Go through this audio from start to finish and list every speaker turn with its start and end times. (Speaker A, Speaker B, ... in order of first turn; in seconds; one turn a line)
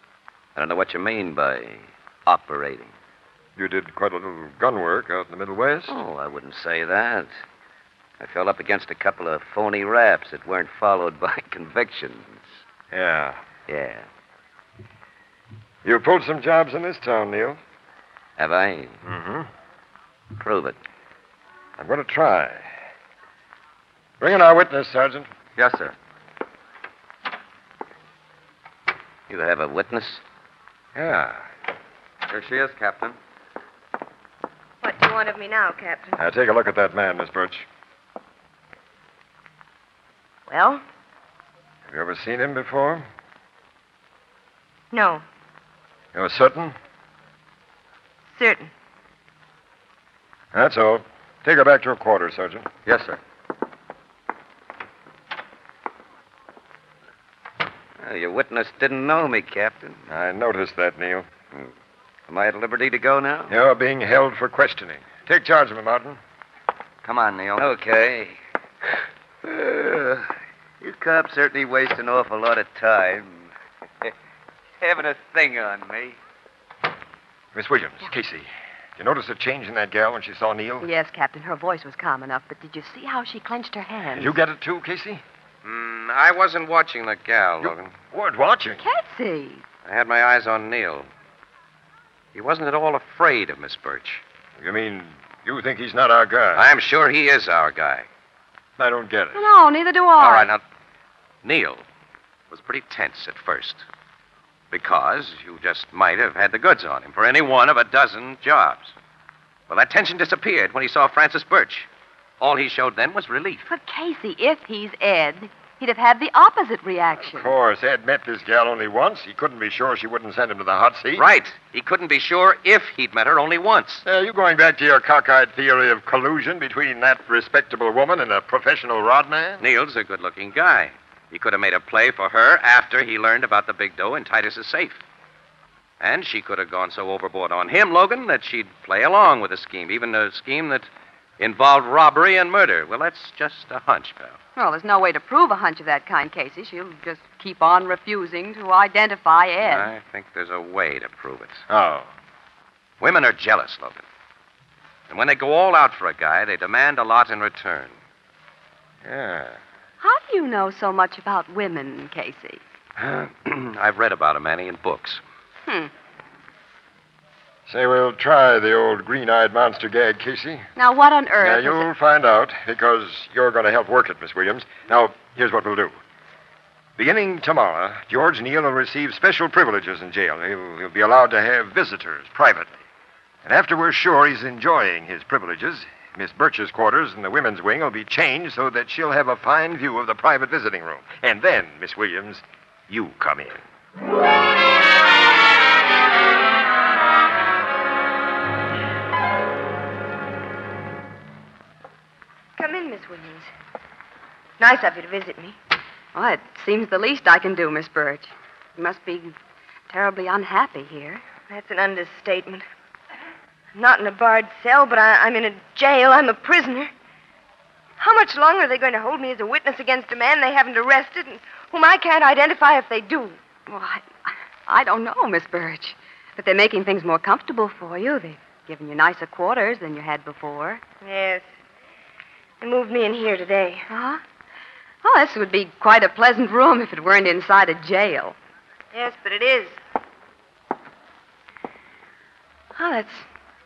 Speaker A: 0.6-2.9
Speaker B: 3.5-6.0
Speaker A: 5.9-7.3
Speaker A: 8.2-12.5
Speaker B: 12.9-13.4
Speaker A: 13.7-14.1
Speaker B: 15.8-17.6
Speaker A: 18.4-19.0
Speaker B: 19.0-19.5
Speaker A: 20.3-20.8
Speaker B: 21.8-22.7
Speaker B: 24.2-25.3
Speaker A: 25.6-25.9
Speaker A: 29.3-30.2
Speaker B: 30.9-31.4
Speaker A: 32.3-33.1
Speaker C: 34.8-36.2
Speaker B: 36.2-37.7
Speaker C: 40.5-40.8
Speaker B: 41.9-43.0
Speaker C: 44.9-45.2
Speaker B: 46.1-46.8
Speaker C: 48.3-48.7
Speaker B: 50.5-53.2
Speaker A: 58.0-60.0
Speaker B: 60.1-61.3
Speaker A: 62.3-63.5
Speaker B: 63.5-66.2
Speaker A: 67.0-68.4
Speaker A: 69.4-70.3
Speaker A: 70.8-73.5
Speaker A: 74.8-76.2
Speaker B: 77.5-80.9
Speaker D: 80.8-84.3
Speaker B: 84.1-85.2
Speaker E: 85.6-87.9
Speaker B: 87.6-88.8
Speaker D: 88.8-89.6
Speaker E: 89.8-91.1
Speaker E: 92.3-94.2
Speaker B: 94.6-96.7
Speaker E: 96.5-98.1
Speaker B: 98.8-99.4
Speaker D: 99.3-100.5
Speaker E: 100.2-100.6
Speaker E: 101.4-101.8
Speaker E: 102.5-103.8
Speaker E: 104.7-108.9
Speaker E: 109.7-111.9
Speaker E: 112.4-113.6
Speaker D: 113.7-117.5
Speaker B: 117.3-121.3
Speaker E: 121.2-124.0
Speaker B: 124.0-129.6
Speaker E: 129.6-135.0
Speaker E: 136.0-140.9
Speaker E: 141.4-144.4
Speaker D: 144.6-149.9
Speaker E: 149.6-151.6
Speaker B: 151.7-152.1
Speaker E: 153.0-154.0
Speaker E: 155.1-157.9
Speaker B: 159.0-159.6
Speaker D: 160.0-162.6
Speaker E: 163.0-165.2
Speaker B: 167.7-170.7
Speaker D: 170.8-171.8
Speaker B: 171.4-175.9
Speaker B: 177.0-182.8
Speaker B: 183.4-193.6
Speaker C: 202.6-203.5
Speaker C: 204.6-205.6
Speaker D: 206.1-209.3
Speaker D: 209.9-211.2
Speaker C: 211.5-212.6
Speaker C: 213.7-216.9
Speaker C: 218.0-223.4
Speaker D: 223.7-230.8
Speaker C: 231.0-231.4
Speaker C: 232.6-233.8
Speaker D: 233.9-234.2
Speaker D: 235.0-238.3
Speaker C: 238.9-239.8
Speaker D: 242.8-243.2